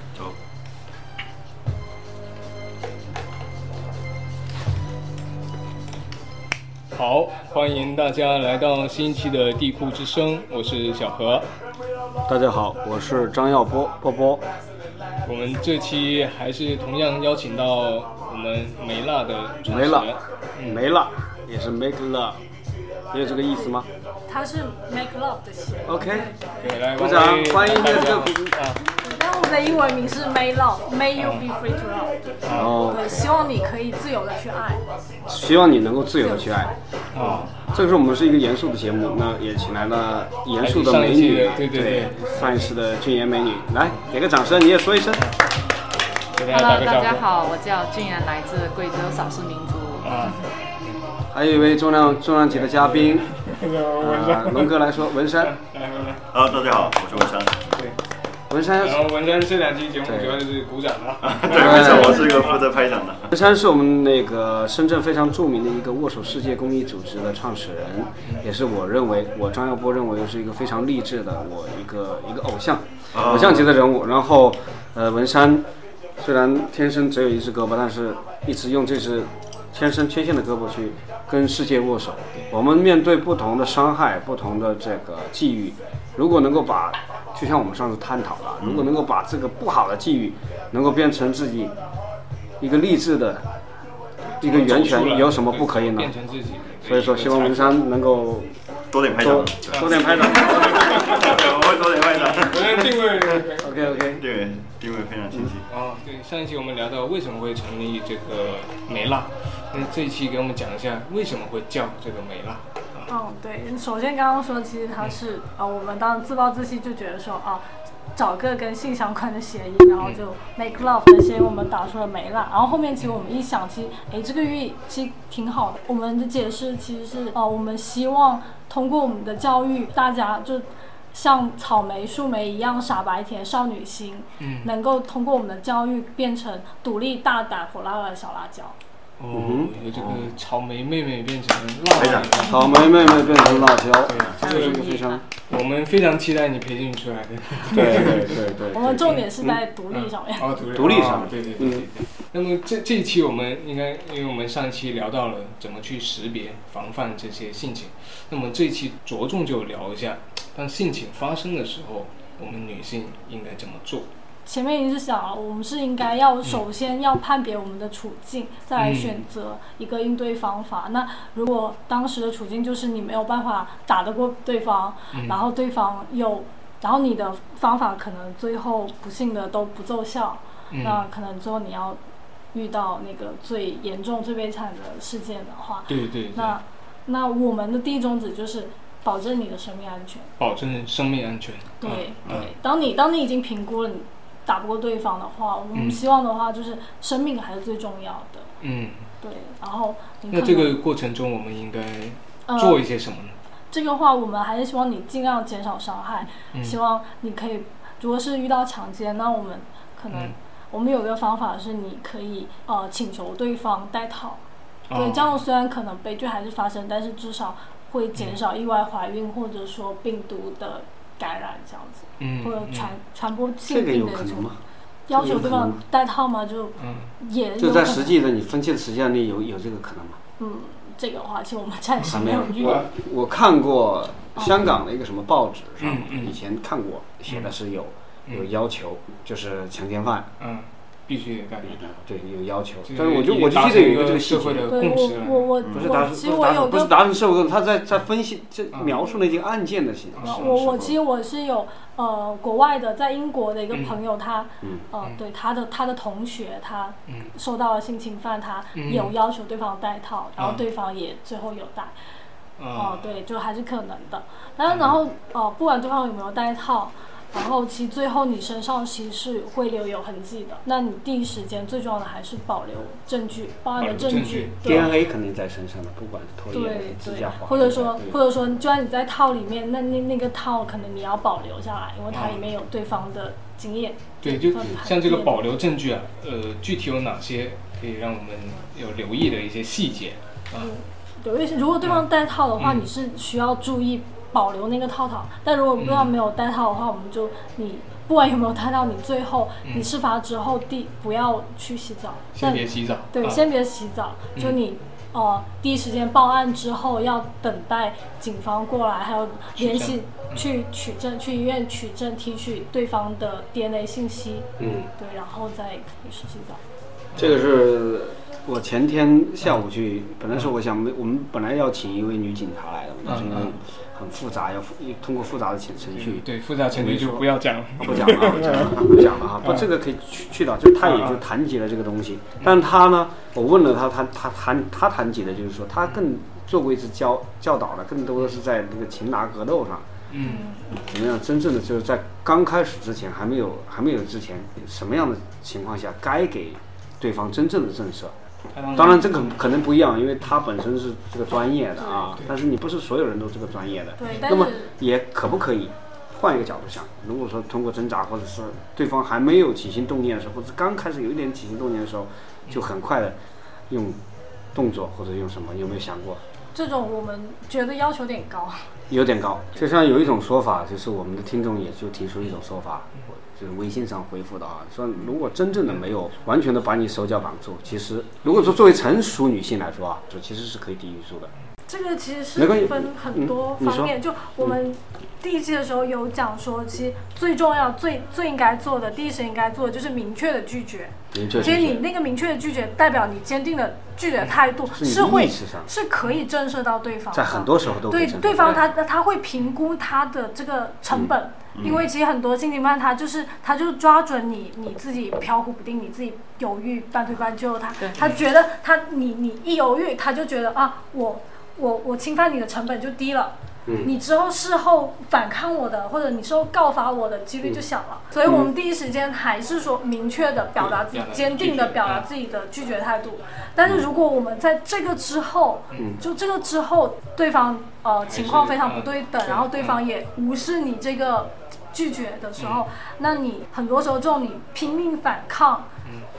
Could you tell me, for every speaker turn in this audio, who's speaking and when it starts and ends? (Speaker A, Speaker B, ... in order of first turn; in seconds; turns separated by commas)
Speaker A: 6.9-11.5, Speaker B: 12.3-14.4, Speaker A: 15.2-20.8, Speaker B: 19.6-22.4, Speaker B: 23.1-23.9, Speaker C: 23.2-26.8, Speaker B: 25.9-28.6, Speaker A: 26.6-28.8, Speaker C: 29.0-34.8, Speaker A: 31.2-31.4, Speaker A: 32.4-32.8, Speaker B: 32.5-33.3, Speaker B: 35.2-45.2, Speaker C: 36.2-36.7, Speaker A: 37.1-37.5, Speaker A: 40.6-42.8, Speaker A: 46.3-47.2, Speaker D: 46.5-50.5, Speaker A: 50.0-50.9, Speaker B: 51.3-53.3, Speaker A: 52.0-57.0, Speaker B: 54.0-55.5, Speaker E: 56.3-57.7, Speaker B: 58.5-59.1, Speaker A: 58.8-62.6, Speaker B: 60.0-60.5, Speaker E: 61.2-63.3, Speaker B: 61.5-62.5, Speaker B: 63.3-75.6, Speaker E: 73.1-73.7, Speaker B: 76.2-91.7, Speaker E: 88.6-88.9, Speaker B: 92.6-93.5, Speaker A: 94.3-97.8, Speaker B: 94.4-96.1, Speaker B: 96.8-98.5, Speaker E: 98.9-102.8, Speaker B: 99.1-101.1, Speaker A: 99.7-104.0, Speaker B: 103.4-104.2, Speaker E: 104.0-105.6, Speaker A: 105.7-113.1, Speaker C: 113.1-117.6, Speaker C: 118.2-138.7, Speaker A: 134.4-134.7, Speaker A: 139.2-148.4, Speaker B: 139.3-139.7, Speaker E: 141.9-142.5, Speaker D: 142.4-142.8, Speaker B: 142.4-145.2, Speaker D: 144.4-145.2, Speaker B: 147.6-149.6, Speaker C: 148.7-150.5, Speaker A: 149.0-149.2, Speaker A: 149.9-164.1, Speaker B: 150.7-151.9, Speaker C: 164.4-182.0, Speaker A: 168.8-169.2, Speaker A: 180.7-181.0, Speaker C: 182.5-190.3, Speaker A: 185.9-186.5, Speaker A: 190.4-192.5, Speaker C: 191.8-198.5, Speaker A: 195.7-196.0, Speaker A: 198.6-199.1, Speaker C: 199.2-200.8, Speaker A: 200.3-203.3, Speaker C: 202.5-202.8, Speaker C: 203.7-214.4, Speaker A: 214.9-215.4, Speaker C: 214.9-224.5, Speaker A: 222.2-222.9, Speaker B: 223.7-224.6, Speaker C: 225.1-228.2, Speaker B: 225.1-225.8, Speaker A: 226.8-227.1, Speaker B: 227.6-230.2, Speaker C: 230.4-232.9, Speaker B: 232.0-240.3, Speaker A: 235.8-236.4, Speaker A: 240.4-241.8, Speaker B: 241.6-244.7, Speaker A: 242.8-245.5, Speaker C: 244.7-247.0, Speaker E: 245.6-245.9, Speaker B: 245.7-251.0, Speaker A: 248.7-249.0, Speaker A: 250.2-250.5, Speaker C: 250.3-261.9, Speaker A: 257.1-257.3, Speaker A: 258.7-259.1, Speaker A: 260.4-260.6, Speaker A: 262.6-263.1, Speaker C: 262.7-274.9, Speaker A: 264.7-264.9, Speaker A: 273.8-274.9, Speaker B: 274.6-278.2, Speaker C: 276.5-285.4, Speaker A: 282.1-282.4, Speaker A: 284.2-290.7, Speaker C: 290.6-316.6, Speaker A: 291.8-292.1, Speaker A: 292.6-292.9, Speaker A: 295.8-296.1, Speaker A: 302.3-303.4, Speaker A: 309.6-310.4, Speaker B: 314.6-314.8, Speaker A: 314.6-314.9, Speaker B: 317.1-339.9, Speaker A: 323.0-323.6, Speaker A: 325.9-329.7, Speaker A: 330.8-331.2, Speaker A: 340.1-340.4, Speaker C: 340.2-340.9, Speaker B: 340.6-348.1, Speaker A: 348.5-349.4, Speaker B: 348.7-363.2, Speaker C: 351.8-352.1, Speaker C: 354.0-354.7, Speaker B: 363.7-364.0, Speaker B: 364.5-366.2, Speaker C: 366.5-368.7, Speaker B: 368.9-381.3, Speaker C: 381.7-435.7, Speaker B: 382.4-384.5, Speaker B: 391.1-391.8, Speaker B: 394.7-395.7, Speaker B: 397.1-398.6, Speaker E: 401.5-401.9, Speaker B: 413.6-413.9, Speaker A: 420.6-422.1, Speaker A: 428.1-429.8, Speaker A: 432.4-432.6, Speaker A: 435.8-436.1